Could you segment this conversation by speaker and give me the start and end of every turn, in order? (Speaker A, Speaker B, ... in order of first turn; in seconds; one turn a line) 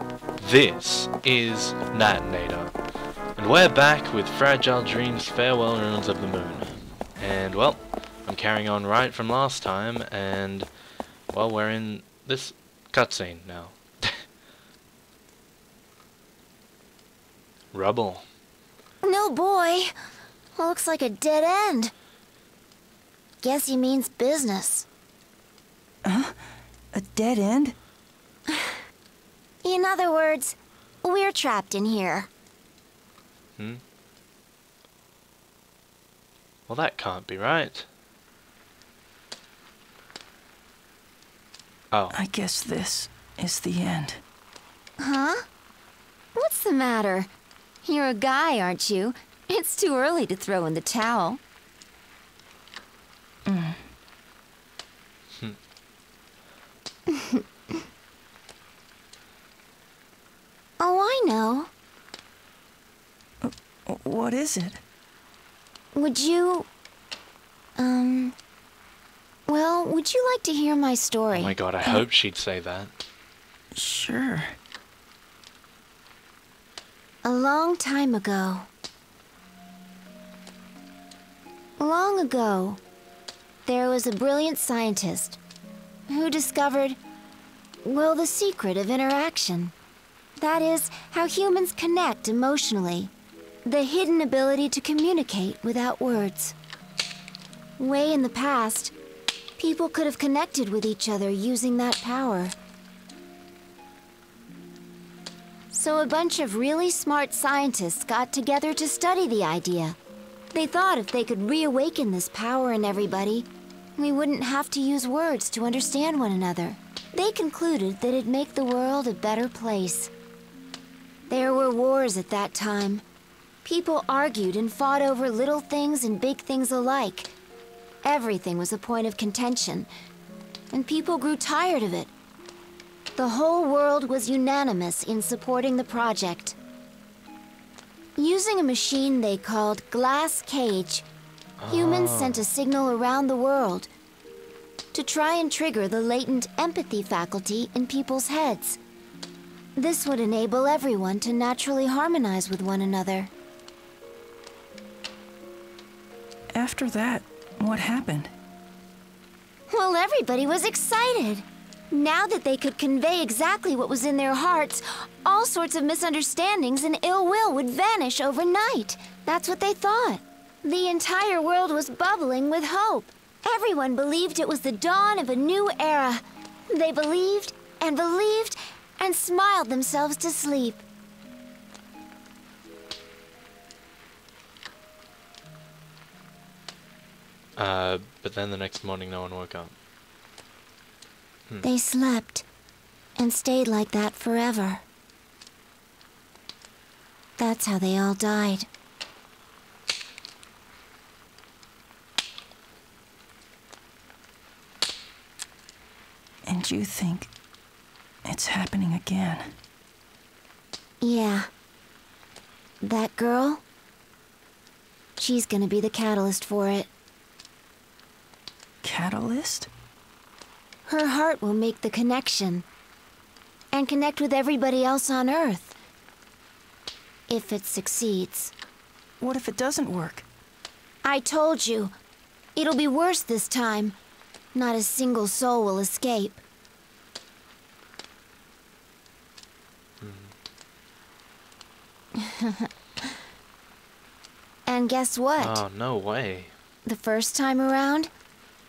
Speaker A: 0.4-2.7
Speaker A: 3.4-10.7
Speaker A: 11.3-14.2
Speaker A: 17.7-18.2
Speaker B: 19.0-19.9
Speaker B: 20.6-21.9
Speaker B: 23.4-24.9
Speaker C: 26.0-26.3
Speaker C: 26.9-27.7
Speaker B: 28.5-28.7
Speaker B: 29.6-32.3
Speaker A: 33.6-33.8
Speaker A: 36.7-37.9
Speaker A: 41.9-42.1
Speaker C: 42.1-44.2
Speaker B: 45.0-45.4
Speaker B: 46.4-47.3
Speaker B: 47.8-51.4
Speaker C: 53.5-53.8
Speaker B: 57.1-57.4
Speaker B: 60.8-61.7
Speaker C: 63.4-64.8
Speaker B: 65.9-66.7
Speaker B: 67.8-68.3
Speaker B: 69.5-71.6
Speaker A: 71.3-72.9
Speaker C: 71.8-72.0
Speaker C: 73.7-74.5
Speaker B: 77.2-78.7
Speaker B: 81.8-82.8
Speaker B: 83.6-85.4
Speaker B: 86.1-87.0
Speaker B: 87.8-89.7
Speaker B: 90.4-93.1
Speaker B: 93.6-96.5
Speaker B: 97.8-98.9
Speaker B: 99.6-102.5
Speaker B: 105.7-110.0
Speaker B: 110.5-120.1
Speaker B: 121.3-123.0
Speaker B: 123.6-127.3
Speaker B: 128.0-129.9
Speaker B: 130.7-132.1
Speaker B: 133.2-136.6
Speaker B: 138.2-141.0
Speaker A: 141.6-142.4
Speaker B: 141.7-143.9
Speaker B: 144.9-148.8
Speaker B: 149.8-153.3
Speaker C: 156.5-158.3
Speaker B: 159.7-180.8
Speaker A: 187.6-189.7
Speaker B: 191.6-192.4
Speaker B: 193.2-194.8
Speaker B: 197.4-198.7
Speaker C: 206.4-207.3
Speaker C: 208.2-209.5
Speaker B: 211.0-211.5
Speaker B: 212.8-213.6
Speaker B: 215.2-216.9
Speaker C: 218.8-219.7
Speaker B: 220.8-222.6
Speaker B: 223.7-225.7
Speaker B: 227.3-228.5
Speaker C: 229.2-230.2
Speaker B: 231.0-231.9
Speaker B: 232.6-233.9
Speaker B: 234.5-236.4
Speaker A: 240.0-240.3
Speaker B: 242.2-242.7
Speaker B: 244.7-245.6
Speaker A: 245.4-246.5
Speaker B: 246.8-248.1